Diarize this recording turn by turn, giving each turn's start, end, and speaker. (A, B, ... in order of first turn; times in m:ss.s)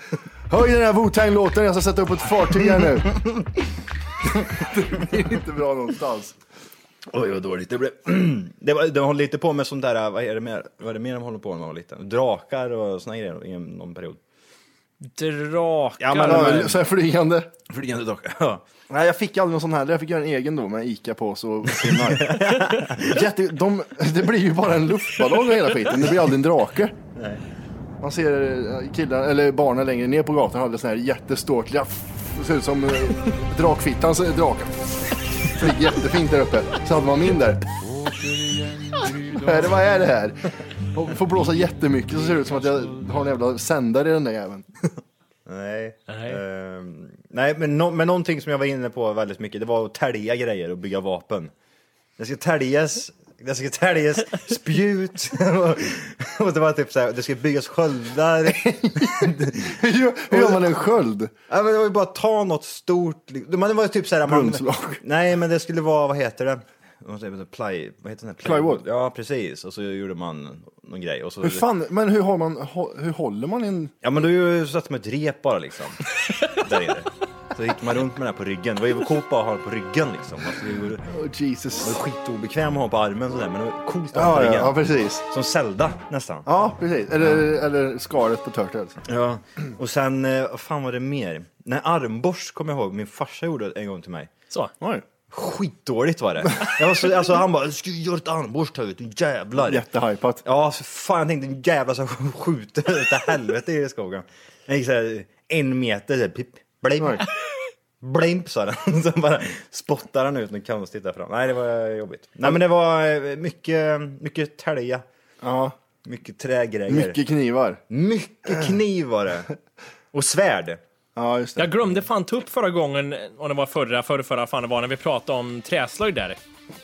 0:00.5-0:03.2 A
0:04.2-0:06.4 A
0:07.1-0:14.2 B
0:15.0-0:16.6 C
0:16.0-0:16.8 B
0:16.2-0:17.5 A
0:17.7-0:18.6 B
0:18.9-0:27.0 A
0:21.8-0:23.2 B
0:27.2-0:27.4 B
0:28.0-0:34.8 A
0:35.4-0:38.1 A
0:38.9-0:44.7 A
0:45.5-0:51.5 B
0:46.1-0:46.4 C
0:52.2-0:59.8 B
0:58.5-1:01.3 A
1:00.3-1:00.6 B
1:01.5-1:11.6 B
1:04.2-1:05.0 A
1:08.4-1:08.8 A
1:11.4-1:13.9 A
1:14.0-1:21.0 B
1:21.1-1:22.0 A
1:21.8-1:24.8 B
1:24.1-1:25.2 A
1:25.3-1:26.5 B
1:26.5-1:29.0 A
1:29.1-1:34.3 B
1:35.3-1:39.8 B
1:39.6-1:40.4 A
1:40.4-1:47.2 B
1:47.0-1:47.2 A
1:48.0-1:55.0 B
1:55.4-1:55.8 A
1:56.0-1:57.2 B
1:56.9-1:57.8 A
1:57.9-1:59.5 B
2:00.1-2:00.8 B
2:01.2-2:01.8 A
2:01.6-2:06.4 C